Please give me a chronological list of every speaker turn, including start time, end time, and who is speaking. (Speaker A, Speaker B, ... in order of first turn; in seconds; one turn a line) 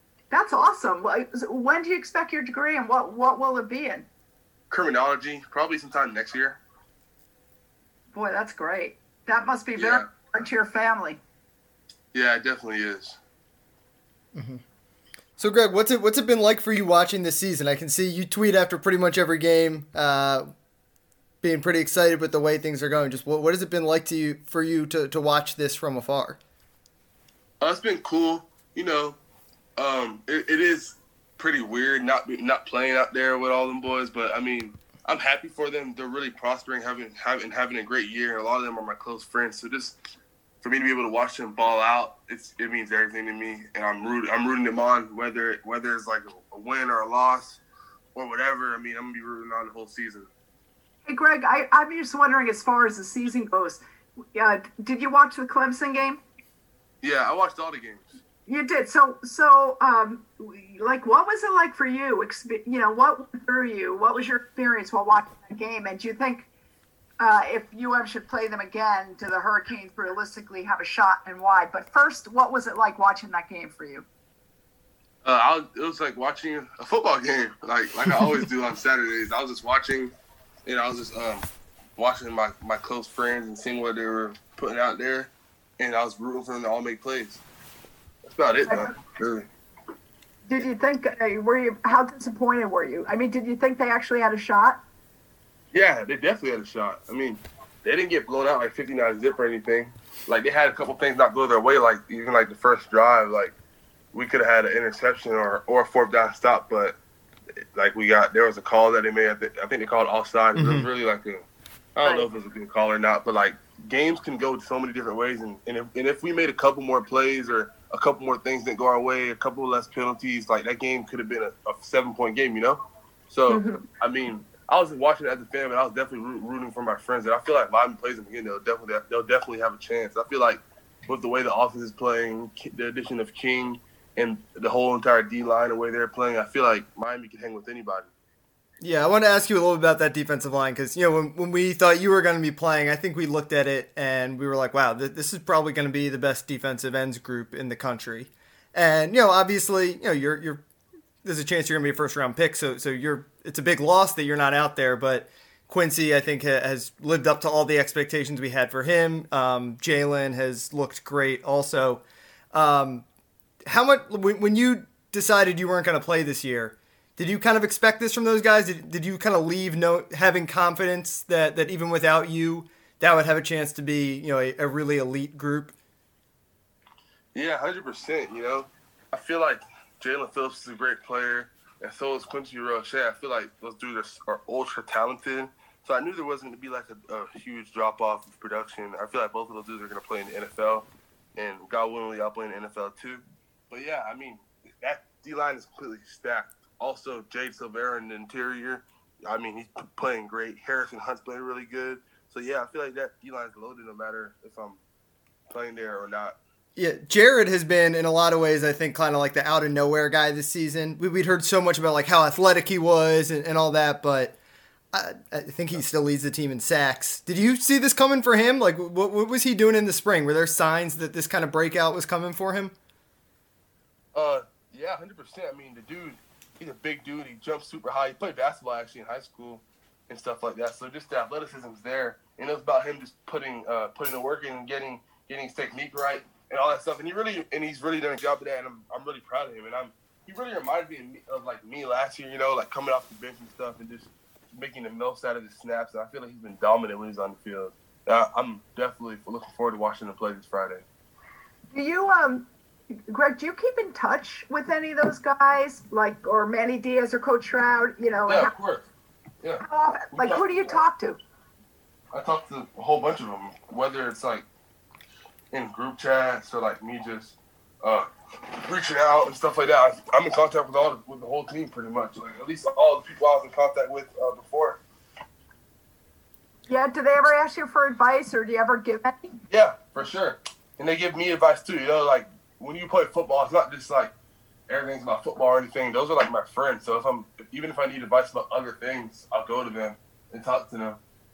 Speaker A: 0.3-4.1
Speaker B: 4.7-6.6
Speaker A: 8.1-11.2
Speaker B: 9.8-10.1
Speaker B: 12.1-13.2
Speaker C: 14.3-14.6
Speaker C: 15.4-20.5
Speaker C: 21.4-26.4
Speaker B: 27.6-29.2
Speaker B: 29.8-39.9
Speaker B: 40.6-47.6
Speaker B: 48.1-50.3
Speaker A: 51.1-53.8
Speaker A: 54.3-56.2
Speaker B: 57.0-58.1
Speaker A: 58.5-66.5
Speaker A: 67.2-74.0
Speaker B: 75.2-80.1
Speaker B: 80.7-87.4
Speaker B: 88.2-89.5
Speaker A: 90.5-94.8
Speaker B: 95.7-103.5
Speaker B: 104.1-107.0
Speaker B: 107.7-111.4
Speaker C: 110.5-110.9
Speaker B: 112.0-138.1
Speaker A: 123.5-123.8
Speaker C: 138.8-150.6
Speaker C: 151.2-163.0
Speaker C: 163.7-175.7
Speaker B: 177.3-204.8
Speaker B: 205.5-206.4
Speaker C: 206.8-214.4
Speaker C: 214.9-222.7
Speaker B: 224.1-250.8
Speaker A: 251.7-258.5
Speaker B: 258.3-258.9
Speaker A: 259.6-261.2
Speaker B: 260.1-260.4
Speaker B: 262.1-264.4
Speaker B: 265.5-268.1
Speaker B: 268.6-274.8
Speaker A: 276.7-279.3
Speaker B: 279.5-284.1
Speaker B: 284.7-291.0